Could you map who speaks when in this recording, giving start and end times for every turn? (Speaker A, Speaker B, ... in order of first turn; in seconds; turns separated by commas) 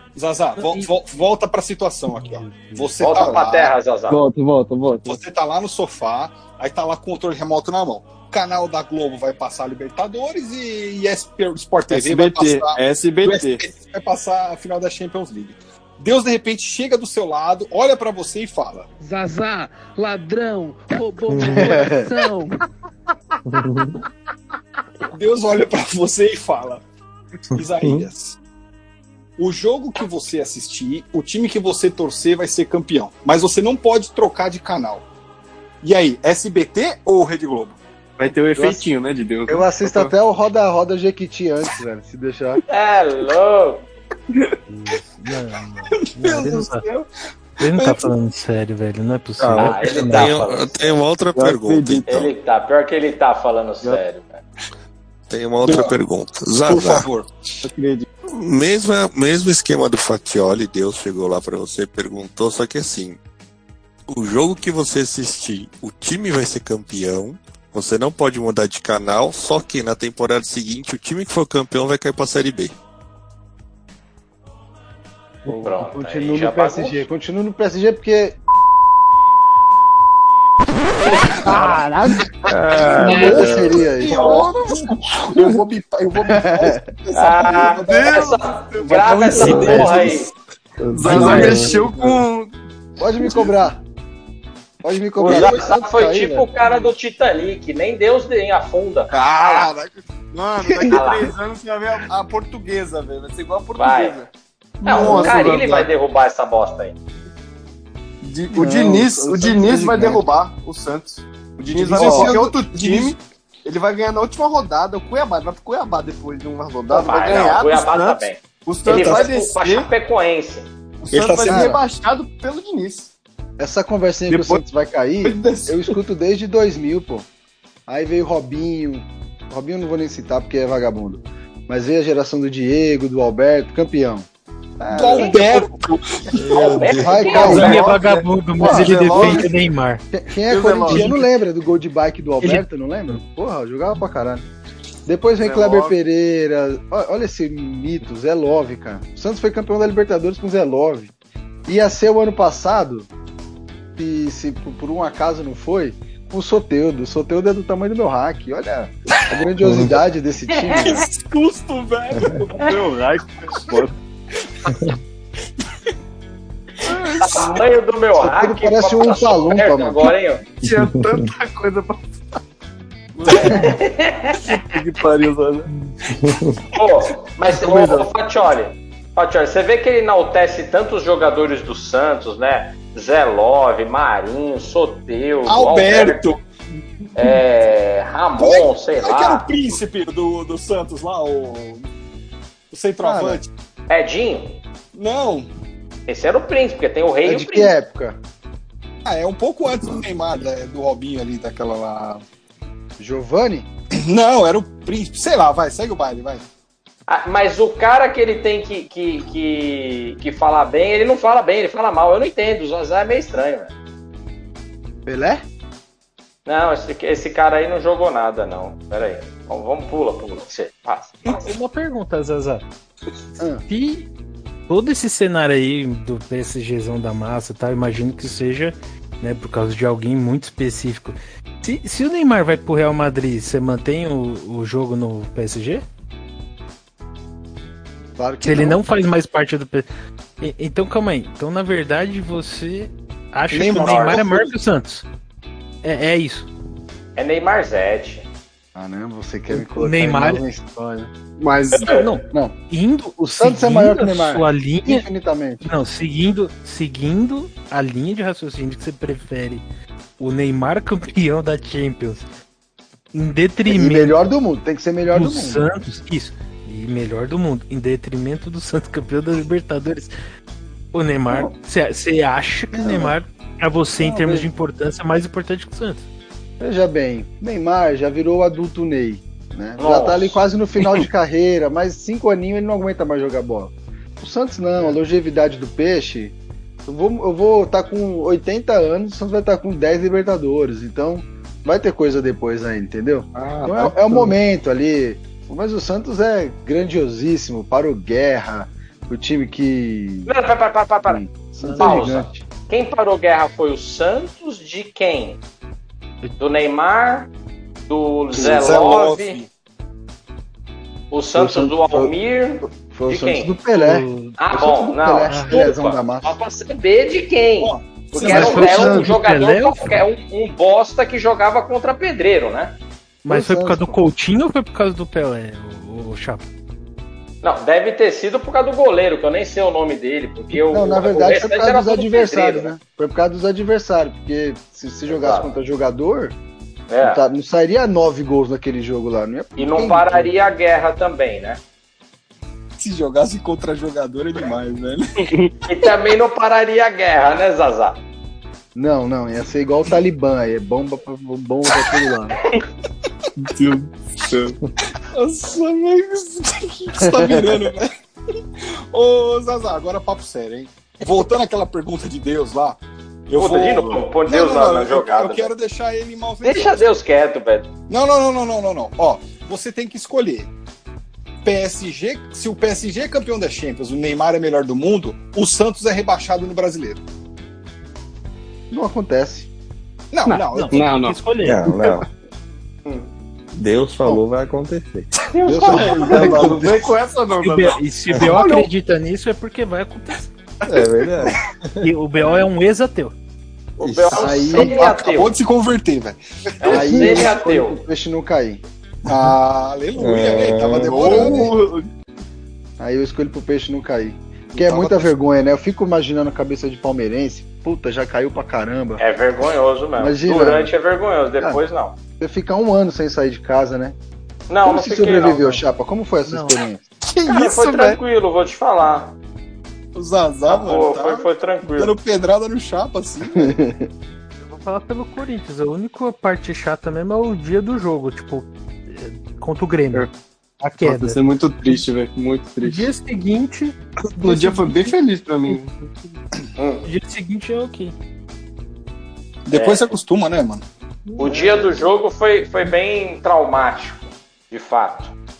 Speaker A: 0.1-3.7, Speaker B: 0.6-0.9, Speaker B: 2.2-2.9, Speaker C: 3.0-4.2, Speaker D: 4.1-5.2, Speaker A: 5.0-18.9, Speaker D: 11.9-13.6, Speaker E: 19.0-22.6, Speaker F: 21.5-22.1, Speaker G: 23.5-23.9, Speaker A: 25.1-26.8, Speaker A: 27.5-28.4, Speaker A: 29.4-35.0, Speaker A: 35.8-37.8, Speaker D: 38.2-40.1, Speaker F: 38.5-38.9, Speaker F: 39.5-42.6, Speaker C: 42.7-43.9, Speaker B: 44.7-46.8, Speaker A: 46.0-47.0, Speaker B: 47.6-50.4, Speaker A: 47.6-48.1, Speaker H: 49.4-52.3, Speaker C: 49.6-51.0, Speaker D: 51.3-52.1, Speaker C: 52.1-54.4, Speaker H: 55.3-57.1, Speaker A: 55.6-55.9, Speaker A: 56.6-57.3, Speaker D: 57.6-58.1, Speaker H: 58.3-63.2, Speaker H: 64.1-72.7, Speaker C: 75.5-77.0, Speaker F: 75.6-78.4, Speaker F: 81.5-82.1, Speaker B: 81.5-82.2, Speaker G: 82.5-83.8, Speaker C: 83.0-84.5, Speaker F: 83.0-84.4, Speaker A: 83.1-88.2, Speaker F: 86.3-86.8, Speaker C: 87.1-90.3, Speaker D: 87.7-90.2, Speaker A: 89.1-90.2, Speaker G: 89.3-89.8, Speaker G: 90.8-91.8, Speaker D: 90.9-92.5, Speaker A: 91.1-91.7, Speaker F: 91.3-91.6, Speaker F: 93.0-93.8, Speaker F: 94.8-96.5, Speaker A: 95.2-95.7, Speaker C: 95.2-99.7, Speaker D: 99.1-104.3, Speaker F: 100.6-101.0, Speaker C: 100.9-101.3, Speaker C: 103.8-104.2, Speaker D: 104.8-105.9, Speaker C: 104.8-107.0, Speaker F: 105.0-105.3, Speaker D: 108.2-119.9, Speaker F: 108.5-110.2, Speaker A: 111.7-113.1, Speaker F: 111.8-112.5, Speaker C: 116.9-120.7, Speaker A: 118.9-119.3, Speaker D: 121.0-123.1, Speaker A: 121.1-121.7, Speaker F: 121.5-121.8, Speaker F: 123.6-127.3, Speaker D: 124.3-124.6, Speaker D: 125.2-125.9, Speaker F: 127.9-134.3, Speaker F: 134.8-135.6, Speaker A: 134.9-136.8, Speaker C: 136.6-137.8, Speaker G: 136.6-137.0, Speaker F: 137.0-137.9, Speaker D: 137.1-139.6, Speaker B: 137.4-140.0, Speaker F: 138.6-139.5, Speaker F: 140.1-144.4, Speaker D: 140.4-141.1, Speaker B: 142.4-143.2, Speaker F: 145.1-151.1, Speaker D: 145.4-145.9, Speaker F: 151.7-153.1, Speaker F: 154.0-161.0, Speaker G: 159.6-159.9, Speaker C: 160.5-161.0, Speaker A: 160.8-162.5, Speaker D: 162.4-163.9, Speaker D: 166.8-167.5, Speaker C: 167.2-170.4, Speaker F: 168.2-170.1, Speaker D: 170.6-172.0, Speaker D: 173.1-173.8, Speaker C: 173.3-174.4, Speaker D: 174.4-175.7, Speaker G: 176.2-176.5, Speaker C: 176.7-186.2, Speaker D: 177.5-178.1, Speaker A: 185.5-186.4, Speaker C: 187.2-189.5, Speaker A: 188.4-191.8, Speaker A: 192.7-193.5, Speaker F: 193.0-193.4, Speaker C: 193.9-194.6, Speaker A: 194.9-195.5, Speaker C: 196.1-197.7, Speaker F: 197.2-198.2, Speaker A: 199.0-202.2, Speaker F: 203.0-203.7, Speaker A: 204.0-206.4, Speaker C: 207.1-213.7, Speaker F: 215.1-215.4, Speaker C: 216.4-221.4, Speaker B: 221.3-222.6, Speaker F: 223.4-223.6, Speaker B: 223.7-224.1, Speaker B: 224.7-235.8, Speaker F: 238.2-238.8, Speaker B: 238.4-239.8, Speaker B: 240.4-245.0, Speaker A: 243.5-244.5, Speaker C: 243.7-244.2, Speaker B: 245.8-246.5, Speaker C: 247.2-248.2, Speaker F: 248.7-251.1, Speaker B: 249.5-250.4, Speaker D: 251.4-252.0, Speaker C: 251.7-252.1, Speaker B: 251.8-255.1, Speaker F: 252.3-252.6, Speaker F: 253.2-255.6, Speaker B: 255.6-259.6, Speaker B: 260.2-262.2, Speaker B: 263.1-264.2, Speaker F: 263.7-265.6, Speaker B: 265.1-270.1, Speaker B: 270.9-276.0, Speaker F: 272.7-273.1, Speaker F: 274.0-274.5, Speaker F: 276.6-286.3, Speaker C: 279.8-280.4, Speaker F: 286.9-300.3, Speaker C: 300.3-301.2, Speaker F: 301.1-302.4, Speaker B: 301.6-302.1, Speaker C: 301.8-305.4, Speaker C: 306.4-307.3, Speaker C: 307.9-309.4, Speaker A: 308.3-309.5, Speaker C: 311.1-313.5, Speaker F: 311.3-312.1, Speaker F: 312.7-316.3, Speaker B: 313.7-314.4, Speaker C: 314.4-322.8, Speaker B: 315.3-315.6, Speaker A: 317.6-318.9, Speaker F: 318.3-319.1, Speaker B: 318.3-319.9, Speaker B: 323.2-326.4, Speaker F: 323.3-324.0, Speaker C: 327.4-332.7, Speaker F: 330.5-336.4, Speaker C: 335.1-335.5, Speaker C: 336.9-337.2, Speaker F: 337.0-340.3, Speaker C: 339.6-341.6, Speaker A: 342.8-345.0, Speaker C: 345.7-348.0, Speaker F: 348.7-352.4, Speaker D: 353.4-354.6, Speaker A: 355.1-357.9, Speaker F: 357.0-357.7, Speaker A: 358.6-366.8, Speaker C: 363.4-365.5, Speaker C: 366.4-367.7, Speaker A: 367.9-370.5, Speaker A: 371.4-377.0, Speaker F: 378.7-379.5, Speaker A: 380.1-380.9, Speaker D: 380.3-381.2, Speaker B: 380.5-381.6, Speaker G: 381.4-382.0, Speaker G: 383.5-385.1, Speaker C: 385.4-385.8, Speaker F: 385.4-386.9, Speaker D: 385.6-387.8, Speaker A: 385.7-386.6, Speaker B: 387.4-390.3, Speaker A: 388.2-388.7, Speaker G: 390.7-391.9, Speaker B: 391.8-393.1, Speaker C: 393.8-395.4, Speaker A: 394.1-397.3, Speaker F: 394.1-394.9, Speaker C: 396.6-397.8, Speaker F: 396.7-398.6, Speaker A: 399.0-401.5, Speaker G: 400.0-401.5, Speaker D: 400.8-401.9, Speaker F: 402.8-409.0, Speaker A: 404.5-405.1, Speaker C: 409.0-411.9, Speaker F: 410.0-410.7, Speaker F: 412.2-413.9, Speaker C: 414.5-415.4, Speaker F: 414.6-416.8, Speaker B: 416.3-416.6, Speaker D: 417.1-418.0, Speaker C: 417.3-419.1, Speaker A: 419.9-423.6, Speaker C: 420.5-421.9, Speaker F: 423.3-423.9, Speaker B: 424.4-430.1, Speaker B: 430.6-431.8, Speaker D: 430.8-432.9, Speaker B: 432.6-434.9, Speaker D: 434.2-435.8, Speaker C: 436.6-436.8, Speaker B: 436.8-437.9, Speaker A: 439.4-440.6, Speaker C: 439.5-439.9, Speaker C: 441.2-445.1, Speaker F: 441.2-441.8